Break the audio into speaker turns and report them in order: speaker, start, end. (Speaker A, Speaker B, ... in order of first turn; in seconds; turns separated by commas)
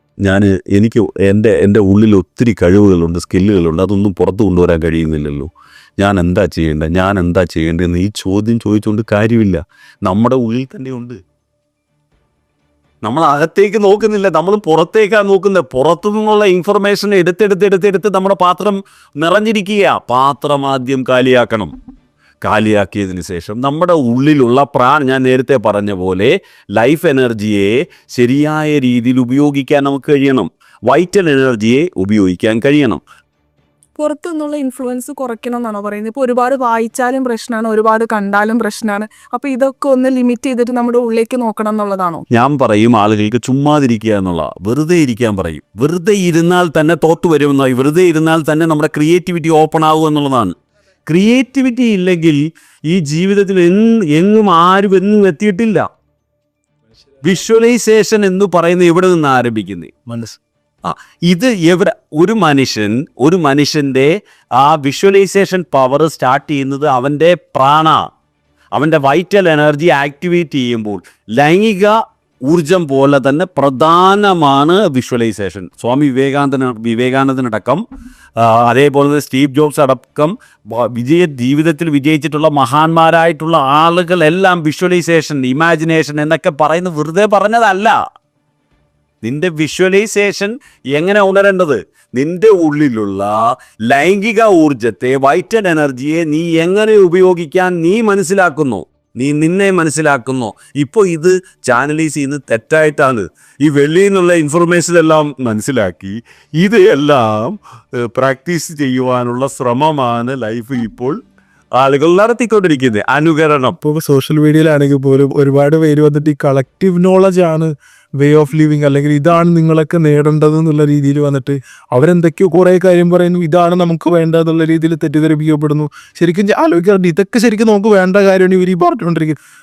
Speaker A: 0.2-11.2, Speaker A: 13.0-21.7, Speaker A: 22.4-33.0, Speaker B: 34.0-42.2, Speaker A: 42.3-50.5, Speaker A: 51.1-55.9, Speaker A: 57.2-59.9, Speaker C: 60.1-60.4, Speaker A: 60.8-68.0, Speaker A: 68.7-72.0, Speaker A: 72.5-77.8, Speaker A: 78.4-88.0, Speaker A: 89.2-111.2, Speaker A: 111.8-113.8, Speaker C: 113.8-129.4